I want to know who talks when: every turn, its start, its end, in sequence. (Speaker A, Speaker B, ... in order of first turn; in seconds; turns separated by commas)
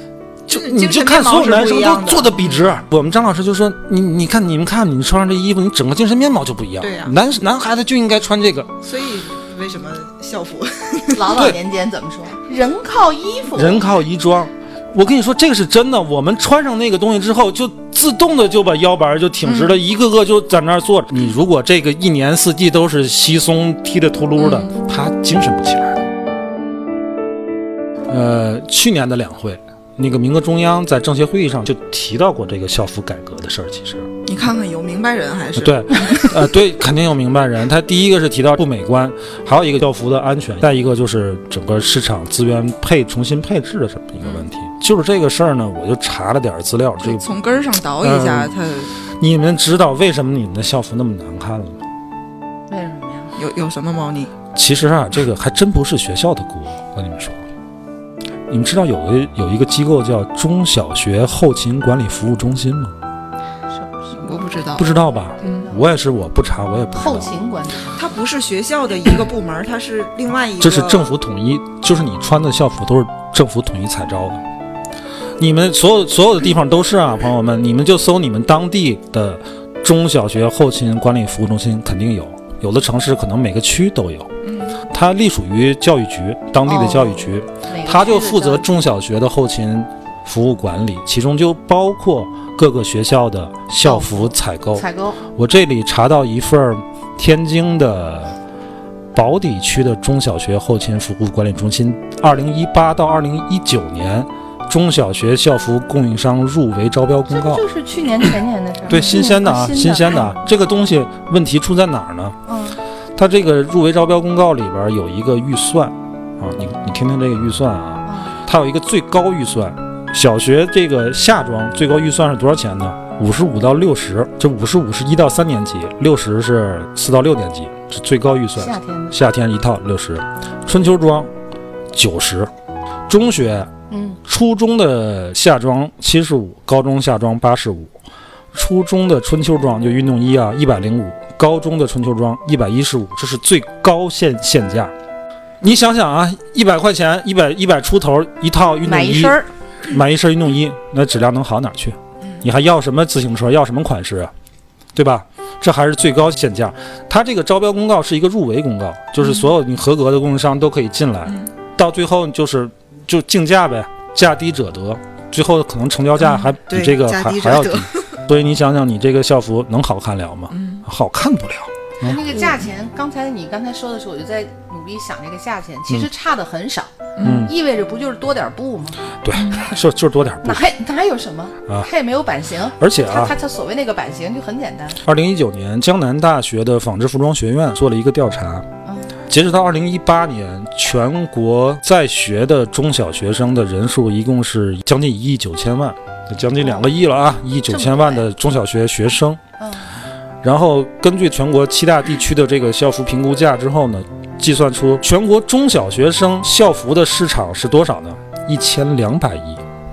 Speaker A: 0.5-8.7, Speaker B: 0.5-2.4, Speaker B: 6.8-7.2, Speaker B: 8.8-11.4, Speaker C: 11.1-13.9, Speaker A: 11.3-11.6, Speaker A: 13.5-26.0, Speaker B: 19.5-19.8, Speaker B: 24.4-24.7, Speaker A: 28.1-34.1, Speaker B: 34.3-36.5, Speaker A: 35.6-47.3, Speaker B: 47.0-48.9, Speaker A: 48.0-48.5, Speaker A: 49.2-51.8, Speaker C: 52.7-53.3, Speaker B: 53.4-54.3, Speaker A: 54.5-57.4, Speaker A: 58.5-62.9, Speaker C: 63.8-64.8, Speaker B: 64.2-64.9, Speaker A: 64.8-67.3, Speaker B: 65.4-65.7, Speaker C: 67.0-68.0, Speaker B: 68.0-71.2, Speaker A: 70.6-74.4, Speaker A: 75.4-84.3, Speaker B: 84.4-84.8, Speaker A: 84.9-98.4, Speaker C: 86.7-88.7, Speaker C: 93.8-95.2, Speaker A: 99.1-107.7, Speaker C: 107.3-110.3, Speaker A: 108.9-112.4, Speaker C: 112.5-112.8, Speaker A: 113.2-131.3, Speaker C: 118.1-118.4, Speaker C: 128.6-129.2, Speaker A: 131.9-132.5, Speaker A: 133.1-133.7, Speaker C: 133.9-134.2, Speaker A: 134.2-137.9, Speaker A: 138.5-144.9, Speaker A: 145.6-154.3, Speaker C: 148.8-149.5, Speaker A: 154.9-172.2, Speaker B: 159.2-159.5, Speaker B: 161.3-161.5, Speaker B: 166.2-168.2, Speaker B: 170.5-170.8, Speaker C: 172.0-179.0, Speaker B: 177.2-177.5, Speaker A: 177.2-177.5, Speaker A: 179.2-180.7, Speaker B: 179.3-179.7, Speaker C: 180.4-185.0, Speaker A: 182.8-183.3, Speaker A: 185.0-188.7, Speaker C: 188.8-189.1, Speaker A: 189.3-199.4, Speaker C: 196.6-196.9, Speaker C: 197.7-198.2, Speaker C: 199.6-199.9, Speaker A: 200.4-209.6